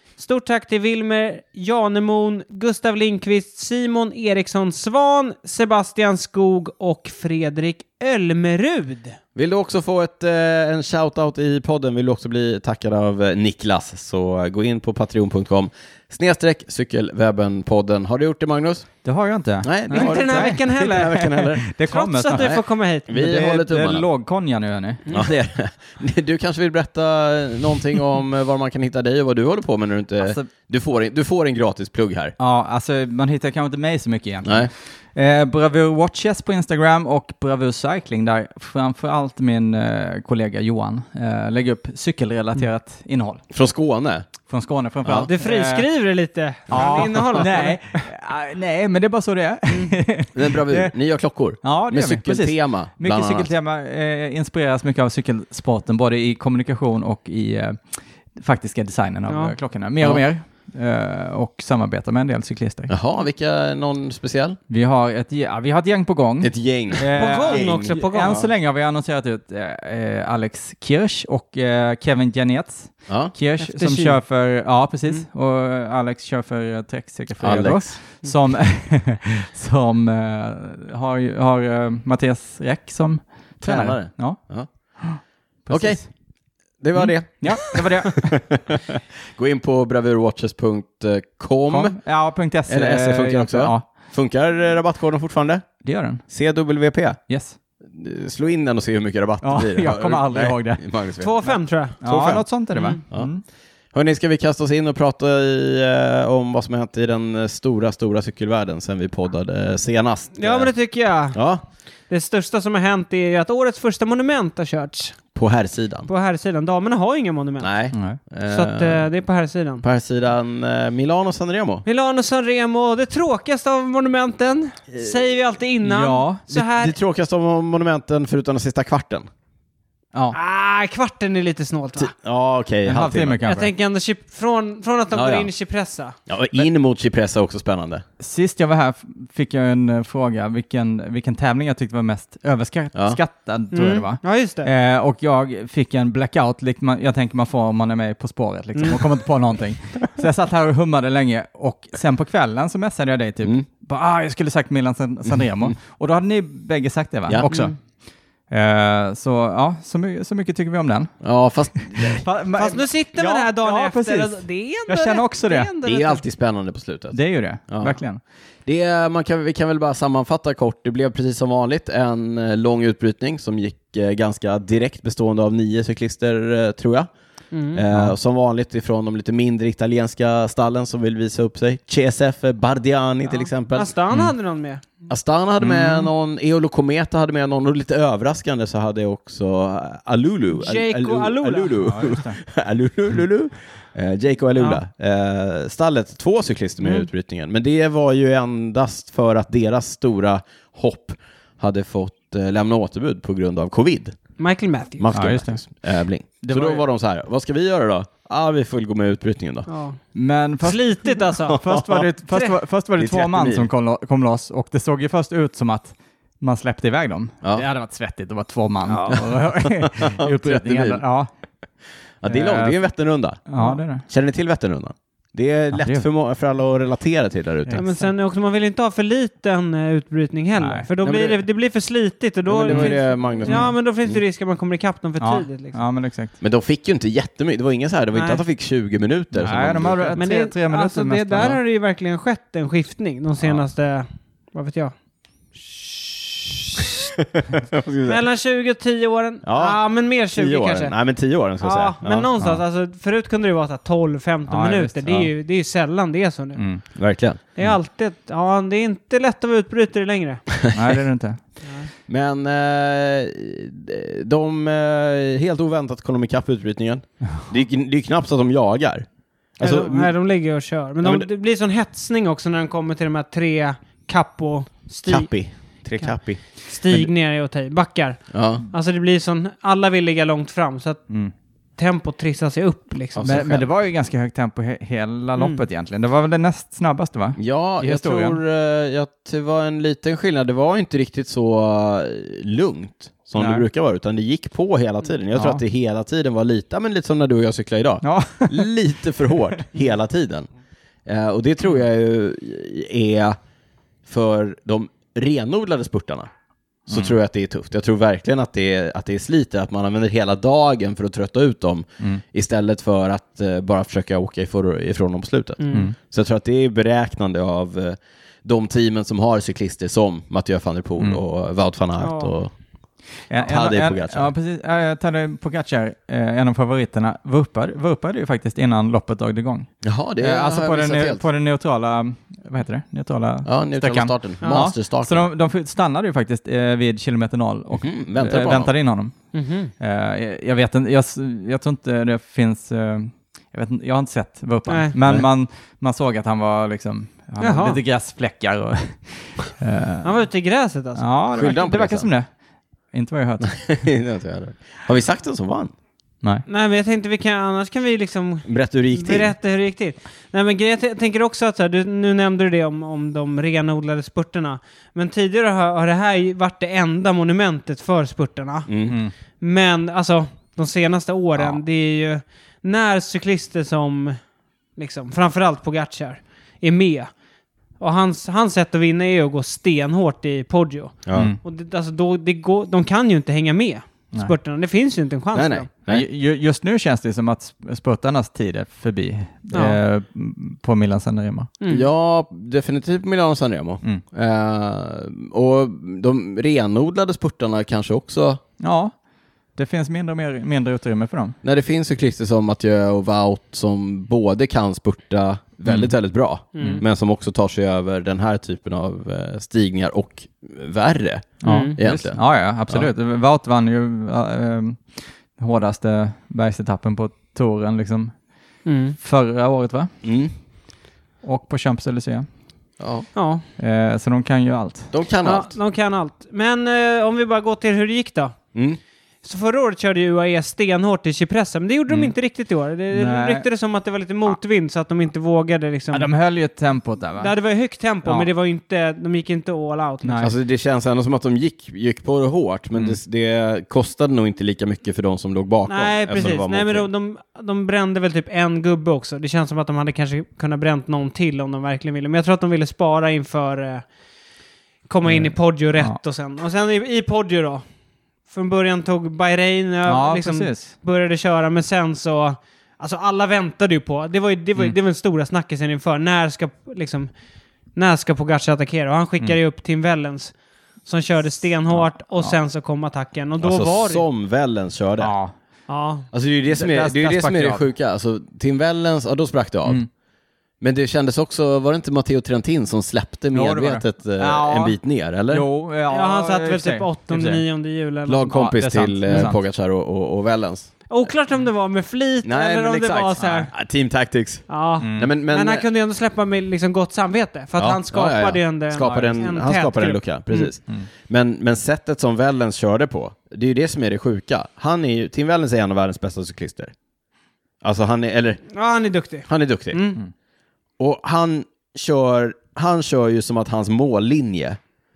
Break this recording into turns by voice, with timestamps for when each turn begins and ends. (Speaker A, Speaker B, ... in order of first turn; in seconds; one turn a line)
Speaker A: 0.2-9.2
Speaker B: 9.3-18.9
Speaker C: 19.0-25.0
Speaker B: 19.6-21.6
Speaker A: 19.9-21.2
Speaker A: 21.8-23.1
Speaker B: 23.1-24.1
Speaker B: 25.1-32.4
Speaker C: 30.2-30.5
Speaker C: 32.4-43.4
Speaker B: 34.4-34.7
Speaker B: 43.5-44.3
Speaker C: 44.5-45.9
Speaker B: 45.0-45.3
Speaker A: 45.2-48.0
Speaker B: 46.7-47.4
Speaker C: 46.7-50.9
Speaker A: 49.7-50.0
Speaker B: 50.3-53.5
Speaker C: 51.6-62.9
Speaker A: 59.3-59.5
Speaker B: 62.9-64.6
Speaker C: 64.7-86.1
Speaker B: 66.4-68.5
Speaker A: 67.1-68.4
Speaker B: 73.1-73.3
Speaker A: 73.6-74.2
Speaker B: 77.4-78.0
Speaker B: 83.6-86.1
Speaker B: 86.7-92.0
Speaker C: 86.9-88.5
Speaker C: 91.7-93.9
Speaker B: 92.7-97.2
Speaker C: 95.8-96.2
Speaker C: 97.3-97.6
Speaker B: 97.8-102.5
Speaker C: 99.4-100.8
Speaker A: 101.2-102.0
Speaker C: 102.0-103.4
Speaker A: 102.7-103.0
Speaker B: 103.9-110.7
Speaker A: 110.3-111.4
Speaker B: 111.3-111.6
Speaker A: 112.0-115.2
Speaker B: 115.3-116.1
Speaker A: 116.1-117.7
Speaker B: 117.6-119.0
Speaker C: 117.9-118.2
Speaker A: 118.5-119.8
Speaker B: 119.8-121.8
Speaker A: 121.8-127.0
Speaker C: 125.8-126.4
Speaker B: 126.5-129.3
Speaker A: 130.3-132.1
Speaker B: 132.0-133.4
Speaker C: 132.8-133.7
Speaker A: 133.4-136.2
Speaker B: 135.1-135.5
Speaker B: 136.3-138.0
Speaker C: 138.2-157.8
Speaker B: 142.9-143.2
Speaker A: 143.7-144.7
Speaker B: 155.3-155.7
Speaker A: 157.4-157.7
Speaker C: 158.5-161.1
Speaker B: 161.2-162.2
Speaker C: 161.9-165.7
Speaker A: 162.6-166.2
Speaker B: 165.8-168.0
Speaker C: 167.1-168.2
Speaker B: 168.7-177.1
Speaker A: 177.5-177.8
Speaker B: 177.7-183.9
Speaker A: 183.3-185.0
Speaker B: 185.1-204.2
Speaker C: 185.6-186.1
Speaker A: 190.5-191.8
Speaker C: 191.8-192.4
Speaker A: 196.8-197.1
Speaker A: 204.4-205.0
Speaker B: 205.0-209.7
Speaker C: 205.1-205.6
Speaker C: 206.4-206.8
Speaker A: 209.7-210.0
Speaker C: 210.1-221.3
Speaker A: 210.6-211.6
Speaker B: 211.5-212.1
Speaker B: 213.0-213.7
Speaker A: 218.8-219.3
Speaker B: 219.1-221.0
Speaker B: 222.2-223.5
Speaker C: 222.2-222.8
Speaker C: 223.4-224.0
Speaker B: 224.0-227.8
Speaker C: 225.7-226.1
Speaker C: 227.7-228.1
Speaker A: 227.8-235.8
Speaker C: 230.6-230.9
Speaker B: 231.0-231.4
Speaker B: 232.5-234.2
Speaker C: 232.7-233.7
Speaker C: 235.2-236.3
Speaker B: 236.4-240.2
Speaker A: 238.1-238.4
Speaker C: 239.3-241.6
Speaker A: 240.2-244.9
Speaker A: 245.6-247.1
Speaker B: 247.2-248.2
Speaker A: 248.0-250.9
Speaker B: 249.4-252.3
Speaker A: 251.6-256.6
Speaker C: 254.5-255.3
Speaker C: 256.6-256.9
Speaker B: 256.9-257.4
Speaker A: 257.6-260.5
Speaker C: 260.7-261.4
Speaker A: 261.6-261.9
Speaker B: 262.1-269.1
Speaker B: 269.6-270.1
Speaker A: 269.6-276.1
Speaker B: 271.0-271.3
Speaker B: 275.1-276.4
Speaker A: 276.6-281.1
Speaker B: 278.3-278.6
Speaker A: 281.8-283.5
Speaker B: 283.1-283.7
Speaker C: 283.2-288.4
Speaker A: 285.4-285.6
Speaker B: 287.4-300.5
Speaker C: 293.4-293.6
Speaker C: 295.3-295.6
Speaker C: 298.0-298.7
Speaker B: 301.1-303.4
Speaker B: 304.1-306.3
Speaker B: 306.9-322.5
Speaker C: 306.9-307.2
Speaker A: 315.6-315.9
Speaker A: 322.0-322.4
Speaker C: 323.3-339.1
Speaker B: 323.3-324.3
Speaker B: 329.8-331.2
Speaker B: 333.4-335.3
Speaker B: 337.8-338.7
Speaker A: 339.3-339.7
Speaker C: 339.8-350.1
Speaker A: 344.7-344.9
Speaker A: 347.4-347.8
Speaker A: 350.0-351.1
Speaker C: 351.0-352.3
Speaker B: 351.3-352.1
Speaker C: 352.9-353.5
Speaker B: 353.4-355.7
Speaker A: 356.5-368.7
Speaker B: 358.4-359.3
Speaker B: 368.7-369.0
Speaker C: 368.9-369.1
Speaker A: 369.4-374.2
Speaker A: 374.8-377.1
Speaker A: 377.8-385.7
Speaker B: 381.1-381.3
Speaker C: 381.1-381.4
Speaker B: 385.3-386.0
Speaker C: 385.9-391.5
Speaker A: 389.5-389.8
Speaker A: 391.6-391.9
Speaker B: 391.7-398.4
Speaker C: 398.6-398.9
Speaker C: 399.5-401.4
Speaker B: 401.4-412.9
Speaker C: 405.6-405.9
Speaker A: 406.5-406.8
Speaker C: 406.6-406.8
Speaker C: 411.4-418.3
Speaker A: 411.4-411.8
Speaker A: 418.6-418.9
Speaker C: 419.0-419.9
Speaker B: 420.0-420.3
Speaker C: 421.2-422.3
Speaker B: 422.8-423.1
Speaker A: 423.1-423.4
Speaker C: 423.6-424.9
Speaker B: 424.9-425.5
Speaker A: 425.2-428.4
Speaker B: 428.5-428.8
Speaker A: 429.2-436.1
Speaker C: 431.9-432.1
Speaker C: 432.9-433.4
Speaker C: 435.9-437.3
Speaker A: 437.2-440.2
Speaker C: 440.0-440.3
Speaker B: 440.2-446.9
Speaker A: 445.7-453.9
Speaker A: 454.9-457.6
Speaker C: 455.1-456.0
Speaker A: 458.3-467.1
Speaker C: 459.9-460.7
Speaker A: 467.7-470.3
Speaker A: 470.8-474.0
Speaker C: 471.7-472.4
Speaker B: 473.4-475.1
Speaker C: 475.0-475.3
Speaker A: 475.7-476.1
Speaker B: 476.1-479.9
Speaker C: 476.5-477.6
Speaker B: 480.6-485.4
Speaker C: 483.3-484.8
Speaker C: 485.3-487.4
Speaker A: 485.9-488.5
Speaker B: 488.1-490.8
Speaker C: 488.3-489.4
Speaker A: 490.9-493.5
Speaker B: 492.2-495.6
Speaker C: 493.2-493.5
Speaker A: 494.5-500.5
Speaker C: 494.8-495.1
Speaker B: 497.6-506.7
Speaker B: 507.6-508.5
Speaker A: 508.5-510.0
Speaker B: 509.3-509.8
Speaker B: 510.8-514.6